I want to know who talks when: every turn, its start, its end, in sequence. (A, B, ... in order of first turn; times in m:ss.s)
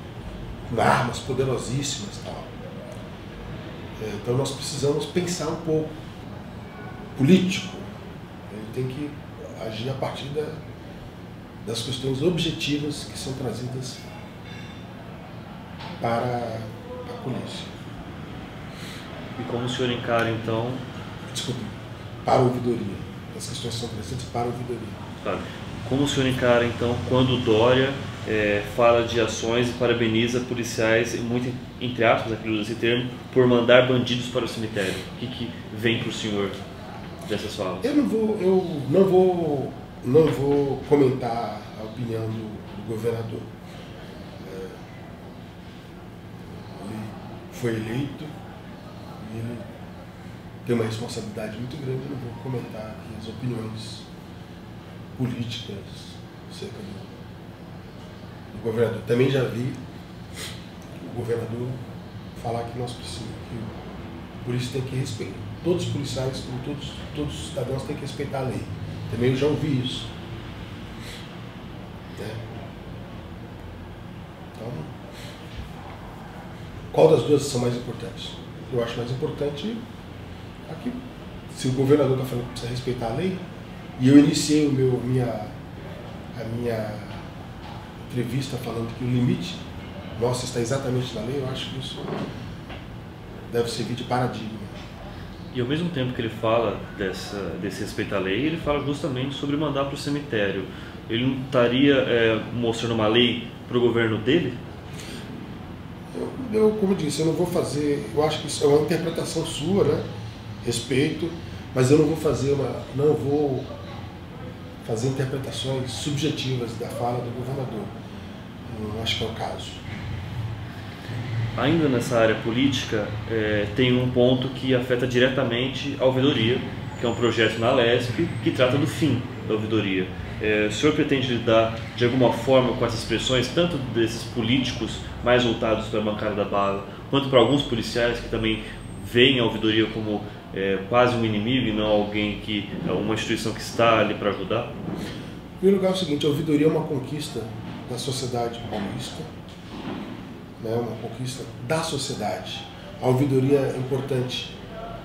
0:00.7-0:02.5 A
0:04.0-0:06.0 A
0:07.2-0:07.9 A
0:08.5-0:10.6 A
0:11.6-0:14.0 A
0:16.0-0:17.8 A
0:19.4-0:20.8 B
0:21.3-0:21.7 A
0:22.2-0:25.0 A
0:25.2-0:36.6 B
0:37.3-0:38.0 B
0:37.8-0:43.5 A
0:44.4-0:44.8 A
0:46.8-0:48.3 A
0:49.2-0:49.6 A
0:50.6-0:54.1 A
0:55.2-0:57.1 A
0:58.5-0:59.8 A
1:01.0-1:01.8 A
1:02.4-1:03.8 A
1:04.4-1:10.1 A
1:12.2-1:12.4 A
1:14.6-1:14.9 A
1:16.9-1:19.8 A
1:20.7-1:21.0 A
1:21.5-1:23.4 A
1:24.0-1:25.6 A
1:26.4-1:27.3 A
1:28.1-1:29.6 A
1:30.2-1:32.1 A
1:33.5-1:34.7 A
1:35.5-1:44.6 B
1:46.1-1:50.1 A
1:50.6-1:53.7 A
1:54.8-1:57.9 A
1:58.7-1:59.8 A
2:01.6-2:24.7 B
2:25.6-2:29.3 A
2:30.6-2:34.6 A